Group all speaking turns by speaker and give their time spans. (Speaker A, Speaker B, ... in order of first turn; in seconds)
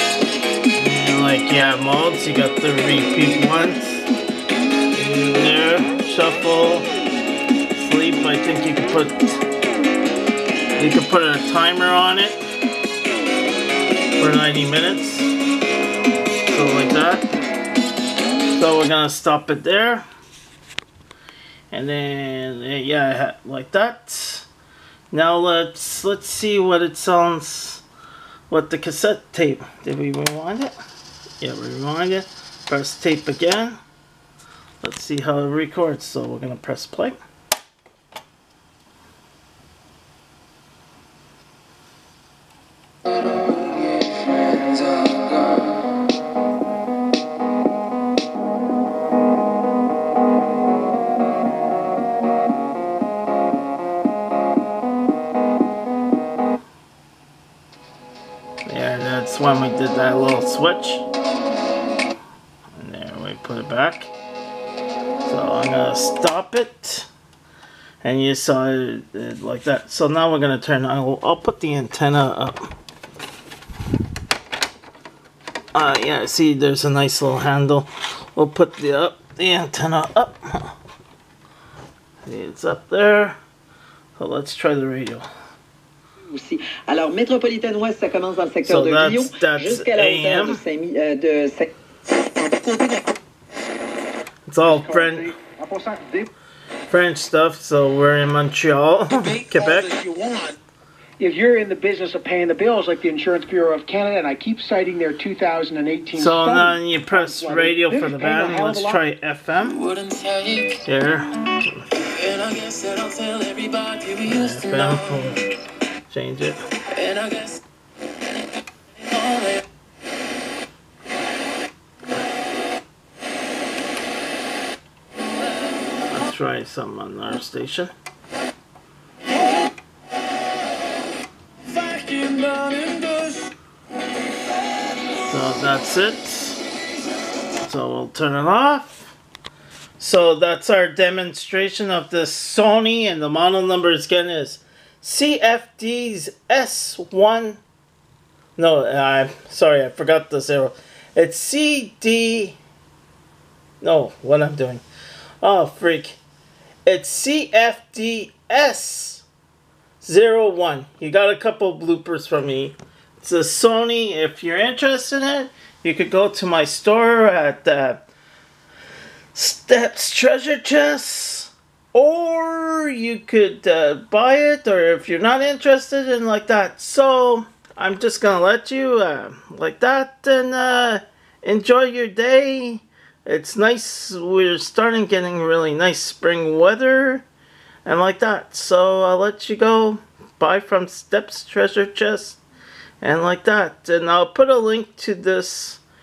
Speaker A: 0.8-4.1, 4.9-6.9, 7.7-9.4, 10.8-12.4, 14.2-15.3, 16.5-17.3, 18.5-20.1, 21.7-24.5, 25.1-27.8, 28.5-30.7, 31.4-33.8, 34.8-37.1, 58.6-61.0, 62.7-64.1, 65.2-67.1, 68.0-72.7, 75.7-80.7, 82.2-83.4, 84.2-85.2, 88.6-90.6, 94.5-95.3, 96.9-100.0, 106.1-109.8, 110.8-111.8, 114.2-115.4, 116.1-116.6, 126.1-127.9, 135.2-136.6, 137.6-139.2, 140.0-147.6, 148.6-152.6, 153.8-154.8, 155.4-156.2, 156.8-159.2, 160.0-168.1, 169.3-187.2, 187.8-192.4, 193.0-195.8
Speaker B: 43.3-45.6, 109.8-110.8, 112.1-115.0, 116.9-117.6, 119.1-119.6, 131.7-133.5
Speaker C: 86.2-91.7
Speaker D: 94.7-96.3, 99.5-100.5, 101.2-109.0